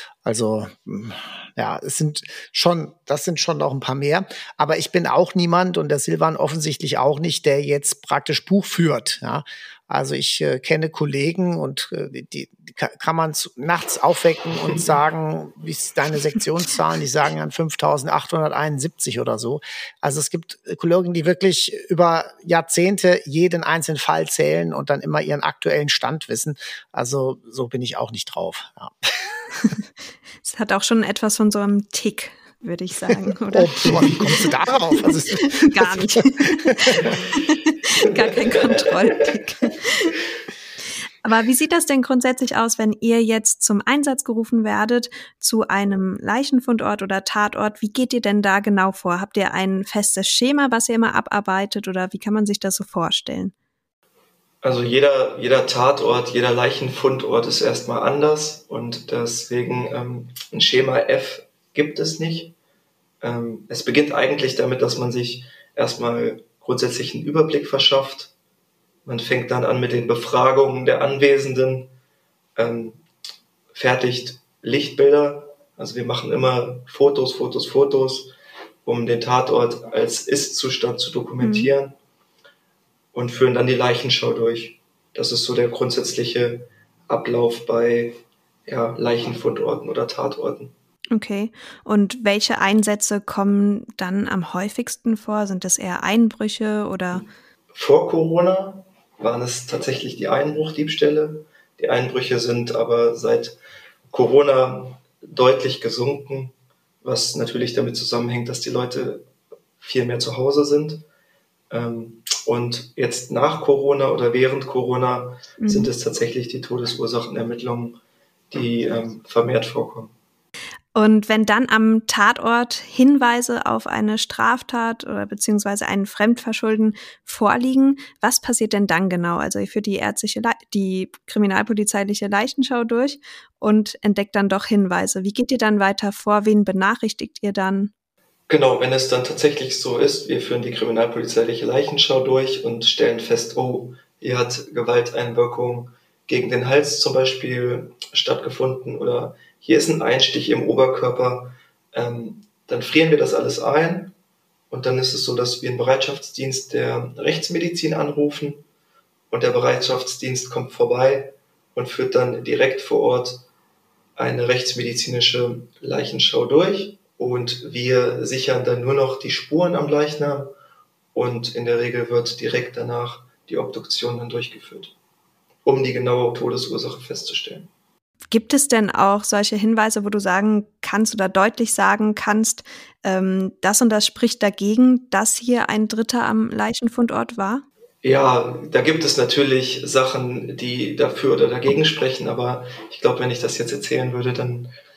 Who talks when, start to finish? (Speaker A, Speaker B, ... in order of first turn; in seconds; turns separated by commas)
Speaker A: 0.2-29.2, Speaker B: 30.4-34.4, Speaker A: 33.5-37.0, Speaker B: 35.0-40.1, Speaker B: 41.2-53.5, Speaker C: 54.6-62.5, Speaker C: 63.2-68.3, Speaker C: 69.0-71.9, Speaker C: 72.5-73.0, Speaker C: 73.7-78.3, Speaker C: 78.8-82.0, Speaker B: 81.4-81.7, Speaker C: 83.1-90.7, Speaker B: 91.1-97.2, Speaker C: 97.1-103.6, Speaker C: 104.1-109.2, Speaker C: 109.8-111.0, Speaker C: 111.7-118.0, Speaker B: 115.6-115.9, Speaker C: 118.5-120.1, Speaker B: 120.9-137.9, Speaker C: 138.5-154.1, Speaker C: 154.7-158.6, Speaker C: 159.3-163.4, Speaker C: 164.2-170.5, Speaker C: 171.1-174.9, Speaker C: 175.6-177.7, Speaker B: 178.3-187.7, Speaker C: 188.0-194.7